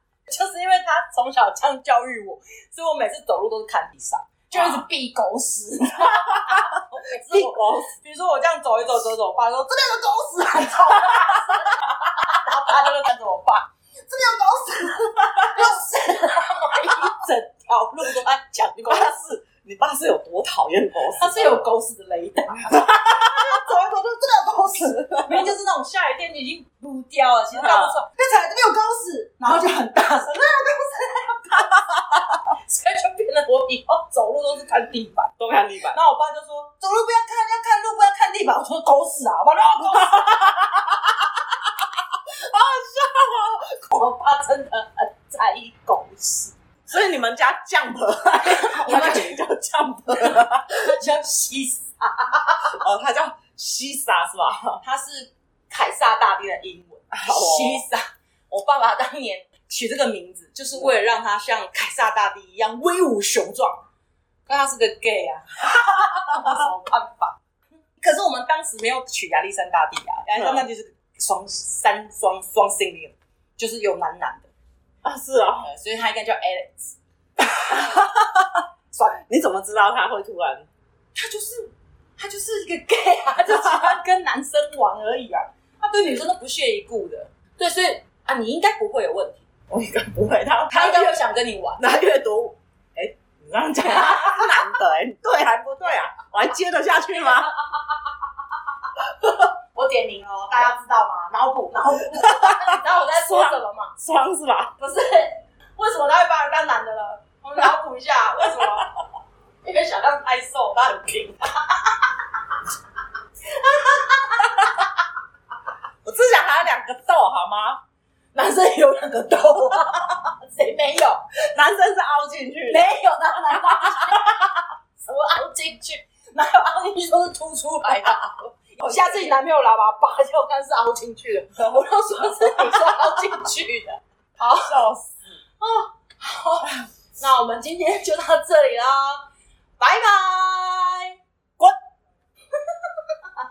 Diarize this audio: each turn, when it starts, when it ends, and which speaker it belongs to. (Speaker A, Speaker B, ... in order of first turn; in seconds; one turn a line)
Speaker A: 0.3-19.2
Speaker B: 4.5-4.9
Speaker B: 6.0-6.8
Speaker B: 7.3-7.9
Speaker B: 18.8-21.6
Speaker A: 21.1-31.8
Speaker B: 22.7-23.4
Speaker B: 24.8-25.5
Speaker B: 27.5-28.0
Speaker A: 32.3-35.3
Speaker B: 35.4-36.0
Speaker A: 35.9-40.5
Speaker B: 40.2-40.5
Speaker A: 42.7-46.5
Speaker B: 46.9-50.7
Speaker A: 48.4-49.4
Speaker A: 50.1-52.8
Speaker B: 52.7-54.8
Speaker A: 54.8-63.8
Speaker B: 57.1-57.8
Speaker A: 64.5-67.4
Speaker A: 68.0-74.5
Speaker B: 70.3-70.7
Speaker B: 75.0-75.7
Speaker A: 75.6-77.0
Speaker B: 77.7-78.5
Speaker A: 78.9-79.2
Speaker B: 79.3-80.7
Speaker A: 81.2-89.4
Speaker B: 83.6-84.0
Speaker B: 89.7-91.2
Speaker A: 90.7-91.8
Speaker B: 91.8-97.5
Speaker A: 93.8-94.7
Speaker A: 97.6-98.0
Speaker A: 99.0-103.9
Speaker B: 102.1-104.8
Speaker A: 104.8-108.9
Speaker A: 109.6-112.1
Speaker A: 113.5-114.9
Speaker B: 116.0-117.8
Speaker A: 118.3-121.2
Speaker B: 121.5-122.9
Speaker A: 122.7-134.9
Speaker B: 128.8-129.3
Speaker B: 132.6-132.9
Speaker B: 134.4-135.1
Speaker A: 135.6-139.2
Speaker A: 139.8-141.2